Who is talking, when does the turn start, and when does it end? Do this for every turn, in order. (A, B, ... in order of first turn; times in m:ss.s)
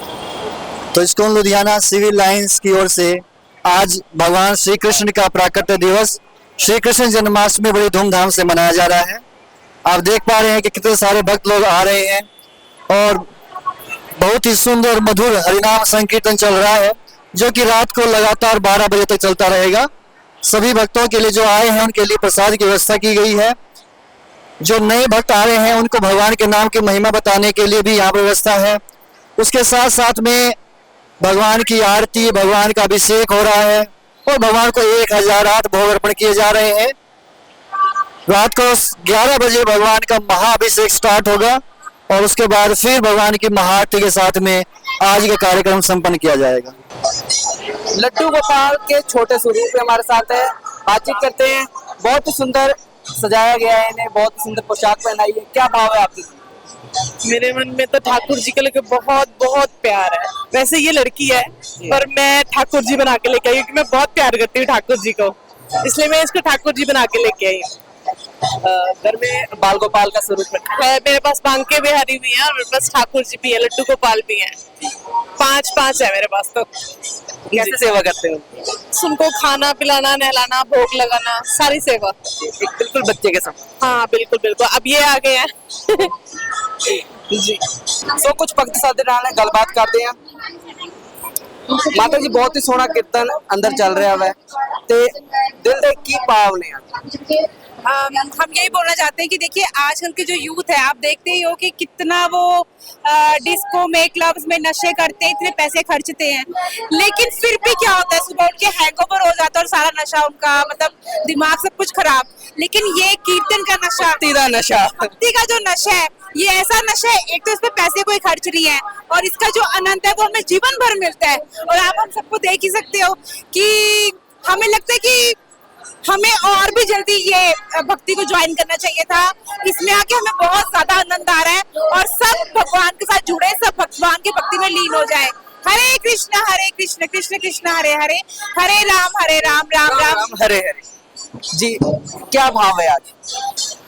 0:00.9-0:09.2 A
0:09.8-0:12.3 A
0:12.9-0:13.3 A
0:14.2-0:19.9 A
0:20.4-0:23.6 A
0:24.6-0:28.8 A
0:29.4-0:30.6 A
0:31.2-0:36.9 A
0:38.3-0:46.7 A
0:47.9-0:56.4 B
0:57.2-1:07.7 C
1:08.6-1:10.7 B
1:10.8-1:14.5 C
1:15.4-1:16.7 C
1:17.5-1:18.4 B
1:18.9-1:22.1 C
1:22.5-1:23.6 B
1:23.8-1:26.1 C
1:26.8-1:27.6 B
1:28.1-1:30.2 B
1:31.7-1:34.3 B
1:34.9-1:37.2 B
1:37.8-1:54.2 D
1:54.0-1:55.1 B
1:55.2-2:05.4 D
2:06.0-2:20.2 D
2:19.8-2:20.8 B
2:21.5-2:23.1 B